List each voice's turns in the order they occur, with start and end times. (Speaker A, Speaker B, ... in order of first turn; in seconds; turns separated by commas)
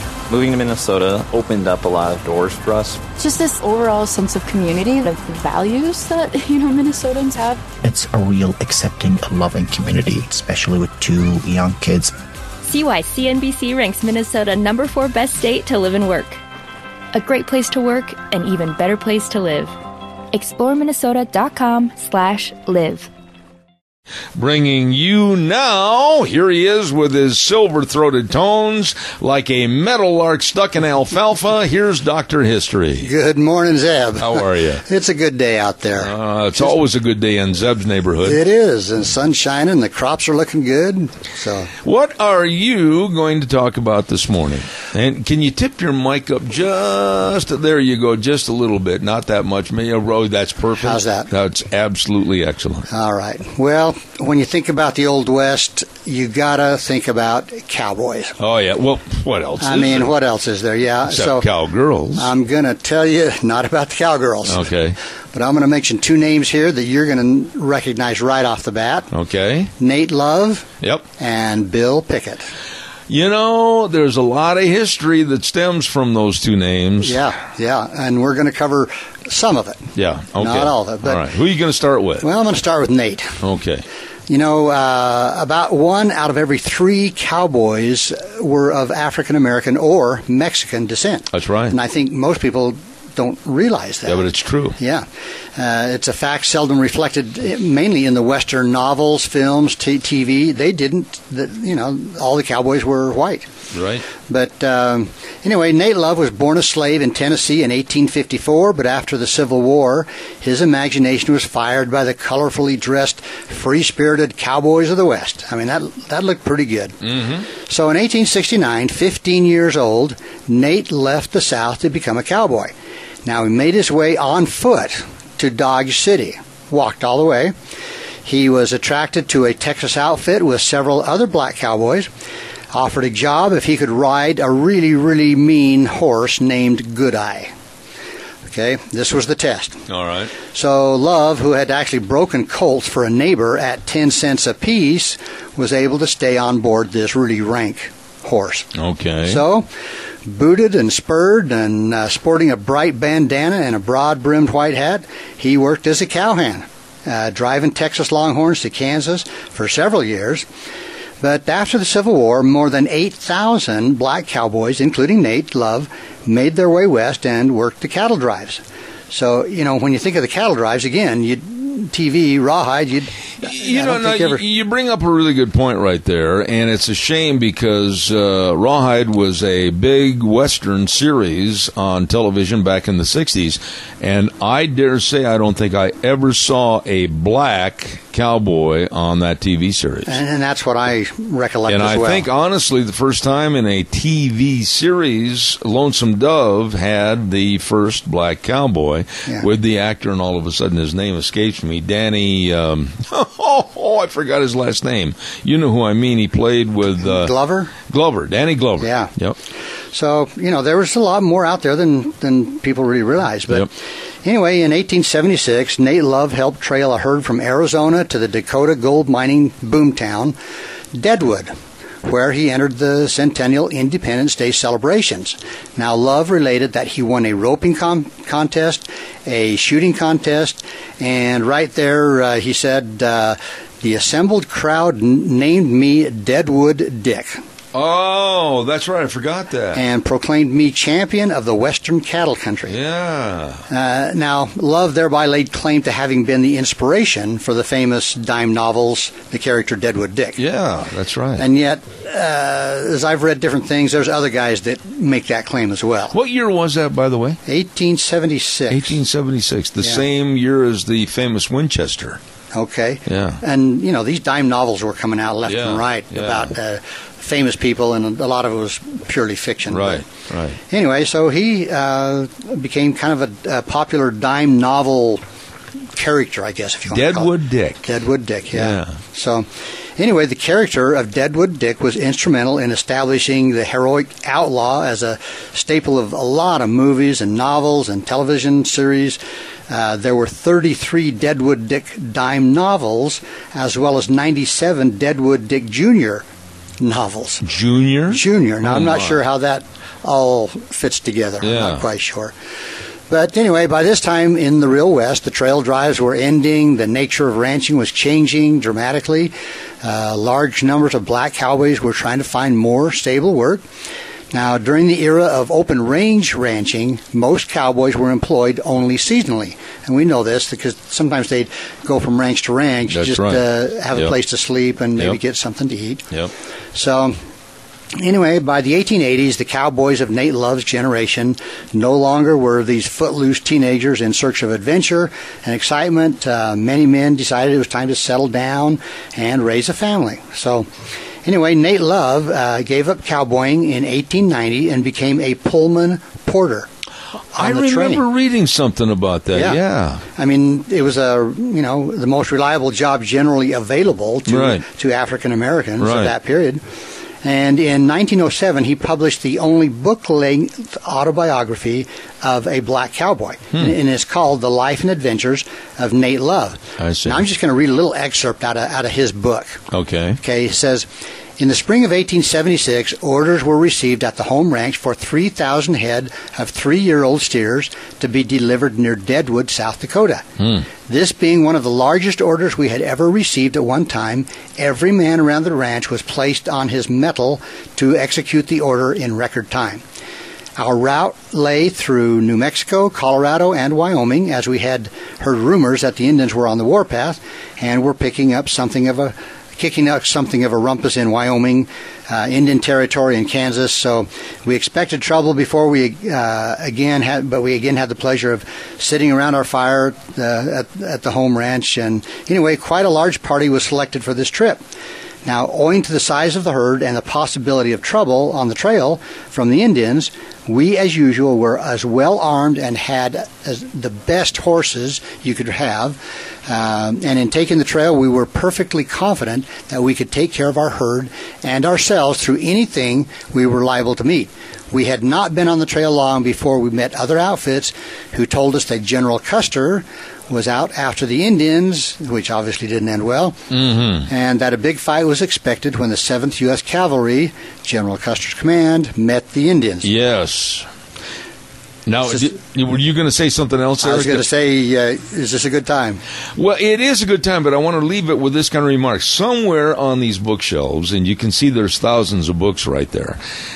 Speaker A: 0.3-3.0, Speaker B: 3.2-7.6, Speaker C: 7.8-12.1, Speaker D: 12.6-16.4, Speaker D: 17.1-19.8, Speaker D: 20.3-23.1, Speaker E: 24.3-33.1, Speaker F: 33.0-36.8, Speaker E: 34.2-34.8, Speaker E: 36.0-38.4, Speaker F: 38.2-41.7, Speaker E: 41.8-52.9, Speaker F: 50.8-51.3, Speaker F: 52.9-58.3, Speaker E: 58.4-60.1, Speaker F: 59.6-61.5, Speaker E: 61.1-62.3, Speaker F: 62.1-64.7, Speaker E: 64.5-65.0, Speaker F: 65.3-69.1, Speaker E: 69.1-69.7, Speaker F: 69.8-70.7, Speaker F: 71.2-72.5, Speaker E: 73.1-77.2, Speaker F: 77.0-81.2, Speaker E: 79.9-82.2, Speaker F: 82.2-83.4, Speaker E: 83.4-83.8, Speaker F: 84.3-103.5, Speaker E: 91.3-91.8, Speaker E: 94.0-94.8, Speaker E: 103.7-104.0, Speaker F: 104.2-117.0, Speaker E: 117.1-117.4, Speaker F: 117.5-122.7, Speaker F: 123.2-127.5, Speaker F: 128.2-132.1, Speaker F: 132.7-137.5, Speaker F: 138.5-139.8, Speaker E: 139.9-140.3, Speaker F: 140.5-148.7, Speaker E: 148.7-149.4, Speaker F: 149.2-149.7, Speaker F: 150.2-160.4, Speaker F: 161.2-174.4, Speaker E: 173.4-190.2, Speaker F: 190.1-192.2, Speaker E: 191.7-207.3, Speaker F: 207.0-207.7, Speaker E: 207.9-209.3, Speaker F: 208.8-209.1, Speaker F: 209.9-213.7, Speaker F: 214.2-220.3, Speaker F: 220.9-221.5, Speaker F: 222.0-237.4, Speaker E: 237.7-239.8, Speaker F: 239.7-242.7, Speaker E: 242.7-243.6, Speaker F: 243.7-250.4, Speaker E: 250.4-251.5, Speaker F: 251.4-256.1, Speaker E: 256.1-257.4, Speaker F: 257.4-259.0, Speaker E: 258.7-262.2, Speaker F: 262.5-270.0, Speaker E: 263.1-263.4, Speaker E: 265.4-266.5, Speaker E: 269.7-270.6, Speaker F: 270.7-275.2, Speaker F: 275.9-296.3, Speaker E: 276.9-277.9, Speaker E: 278.5-278.9, Speaker F: 296.8-297.4, Speaker E: 297.4-299.2, Speaker F: 298.1-302.3, Speaker E: 301.4-301.8, Speaker F: 303.1-313.6, Speaker F: 314.3-326.1, Speaker E: 322.9-324.1, Speaker F: 326.7-327.1, Speaker F: 328.0-340.7, Speaker F: 341.2-346.7, Speaker F: 347.3-348.0, Speaker E: 347.4-350.0, Speaker F: 349.3-349.6, Speaker F: 350.1-356.6, Speaker E: 354.3-354.6, Speaker E: 355.8-356.1, Speaker F: 357.2-369.6, Speaker E: 366.8-367.2, Speaker E: 369.7-370.2, Speaker F: 370.2-370.9, Speaker F: 371.4-389.8, Speaker F: 390.6-414.6, Speaker F: 415.2-443.4, Speaker E: 443.5-444.1, Speaker F: 444.1-449.9, Speaker E: 449.8-450.7, Speaker E: 451.9-454.2, Speaker F: 453.8-456.0, Speaker E: 456.3-463.2